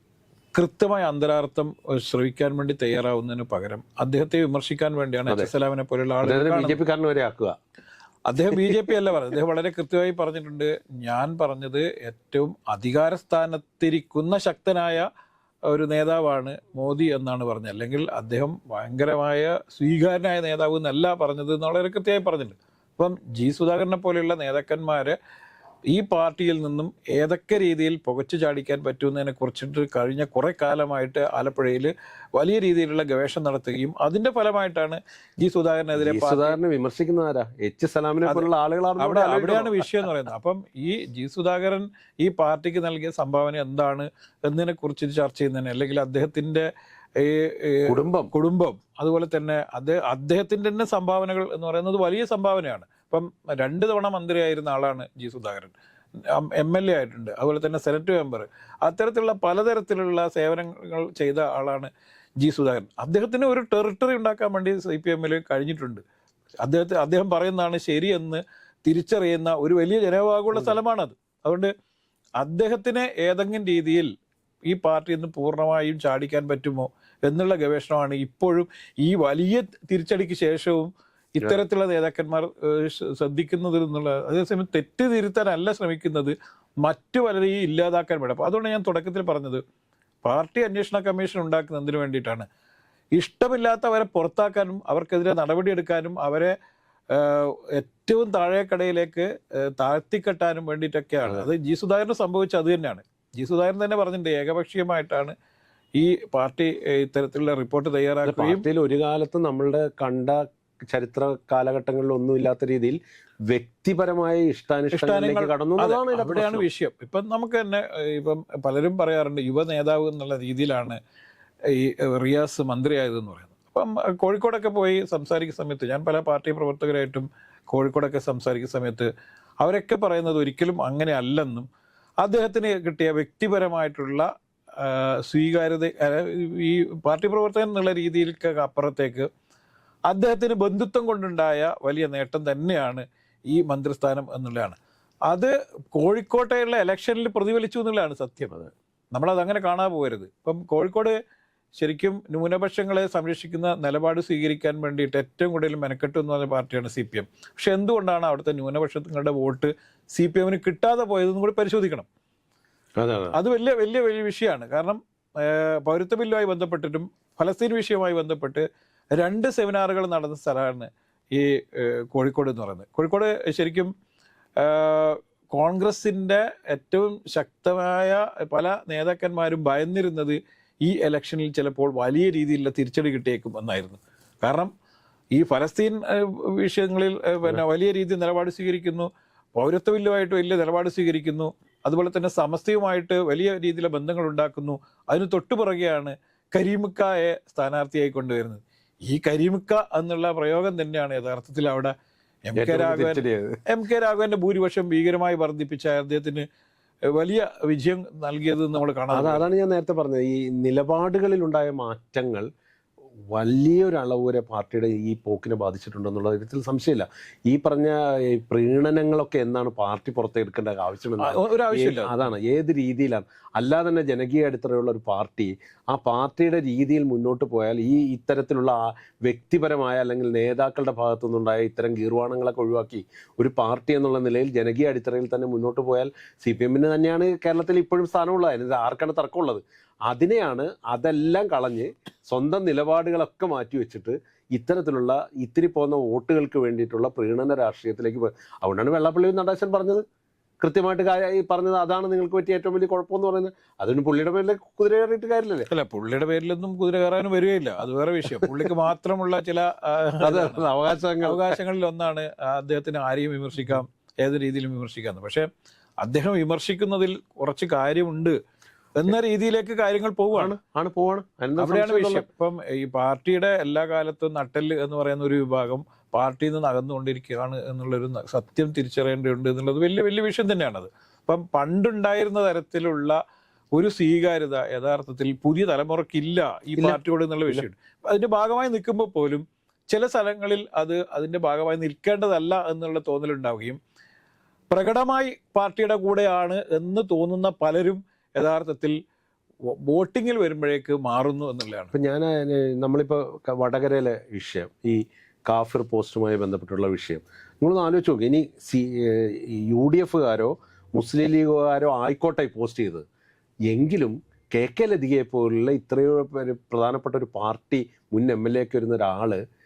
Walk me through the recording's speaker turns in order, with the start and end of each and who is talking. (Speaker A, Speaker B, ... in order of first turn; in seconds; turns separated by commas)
Speaker A: 0.5-6.8, Speaker B: 6.2-7.6, Speaker A: 8.3-15.1, Speaker A: 15.7-25.1, Speaker A: 25.9-36.6, Speaker B: 36.0-39.9, Speaker A: 39.0-55.7, Speaker B: 47.9-48.3, Speaker A: 56.3-66.0, Speaker A: 66.6-71.7, Speaker A: 72.4-74.1, Speaker A: 74.7-80.9, Speaker A: 81.4-89.6, Speaker A: 90.2-92.5, Speaker A: 93.2-96.5, Speaker A: 97.1-105.3, Speaker A: 106.0-108.7, Speaker B: 108.2-116.6, Speaker A: 114.9-121.0, Speaker A: 121.7-129.1, Speaker A: 129.6-131.7, Speaker A: 132.2-134.3, Speaker A: 134.8-139.3, Speaker A: 140.1-144.8, Speaker A: 145.3-148.5, Speaker A: 149.1-151.2, Speaker A: 151.8-162.1, Speaker B: 163.0-163.3, Speaker A: 163.3-173.9, Speaker A: 174.6-184.7, Speaker A: 185.3-201.9, Speaker A: 202.5-206.5, Speaker B: 202.6-203.6, Speaker A: 207.1-209.4, Speaker B: 209.1-212.5, Speaker B: 213.3-250.0, Speaker A: 221.2-222.2, Speaker B: 250.6-255.7, Speaker A: 255.7-260.6, Speaker B: 258.4-258.7, Speaker B: 260.2-261.6, Speaker A: 261.2-265.5, Speaker A: 266.0-268.4, Speaker A: 269.0-270.5, Speaker B: 270.3-272.2, Speaker A: 271.6-283.2, Speaker A: 283.7-293.8, Speaker B: 286.8-287.6, Speaker A: 294.7-299.0, Speaker A: 299.9-301.9, Speaker B: 301.9-313.0, Speaker B: 313.7-319.4